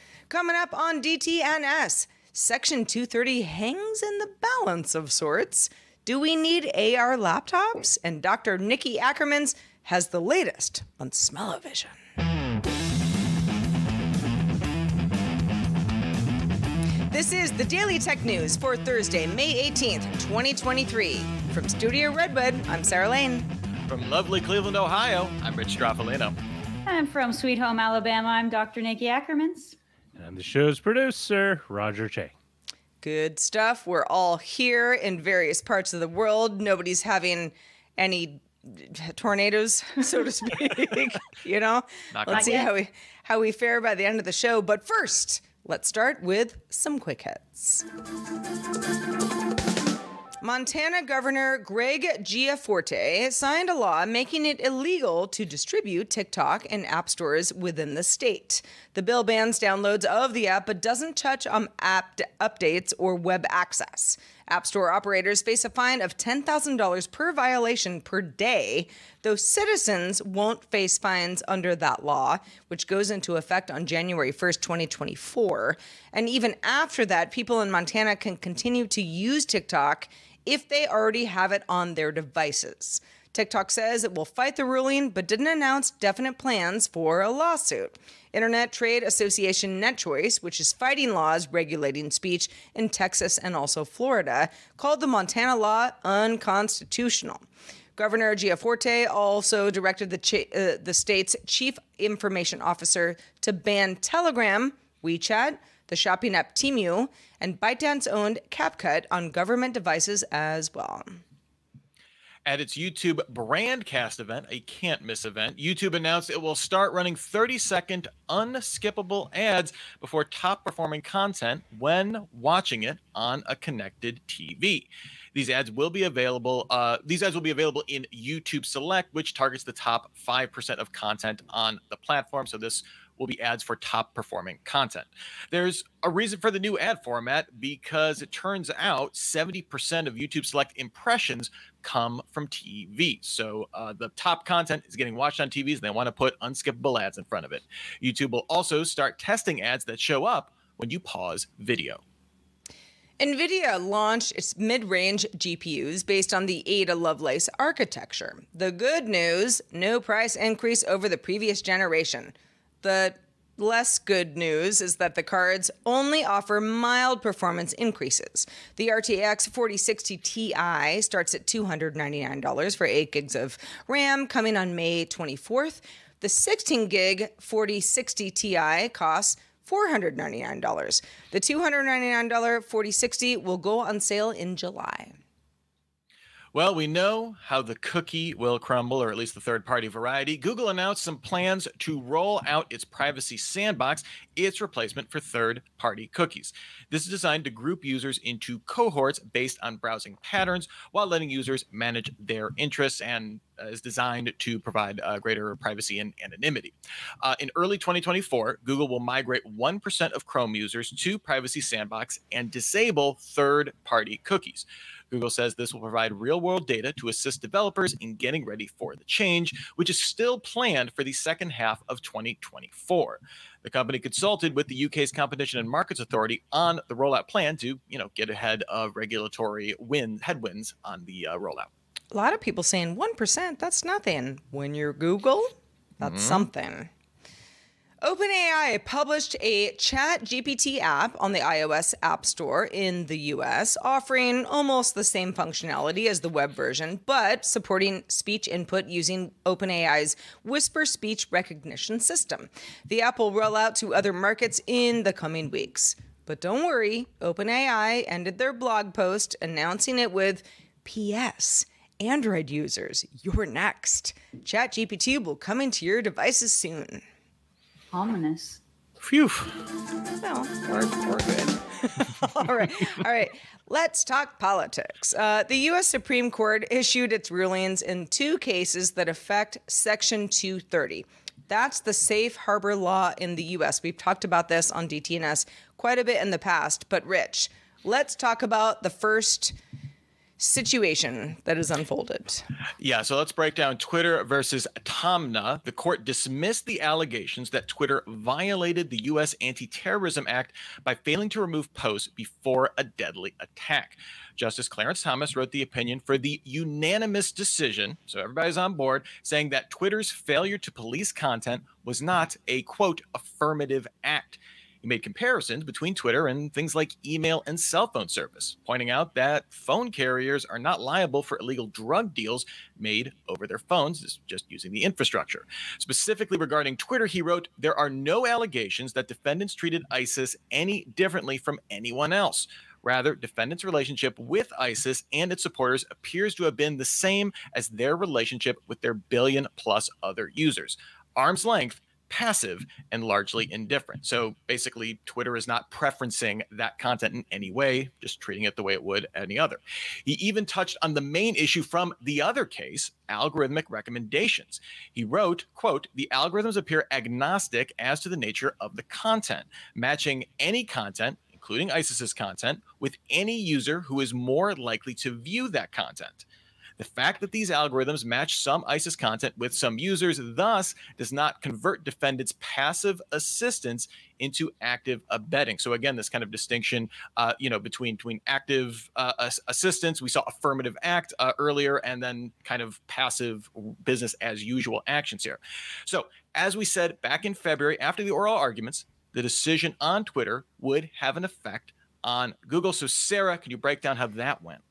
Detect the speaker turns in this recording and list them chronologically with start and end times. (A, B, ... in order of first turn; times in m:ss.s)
0:00.3-0:12.0 A
0:17.1-0:23.5 A
0:23.9-0:26.4 B
0:26.8-0:29.8 C
0:30.2-0:32.3 D
0:33.0-0:47.8 A
0:42.1-0:42.6 B
0:42.3-0:42.7 C
0:50.4-1:37.4 A
1:38.0-1:51.2 A
1:52.4-2:32.0 B
2:33.2-3:05.2 A
3:06.5-3:51.7 B
3:52.1-3:56.9 A
3:56.0-3:56.5 B
3:58.0-4:27.0 A
4:27.9-4:28.6 C
4:29.0-4:29.5 D
4:30.2-4:49.6 A
4:50.4-4:52.4 A
4:52.8-6:06.2 B
6:06.8-6:34.6 B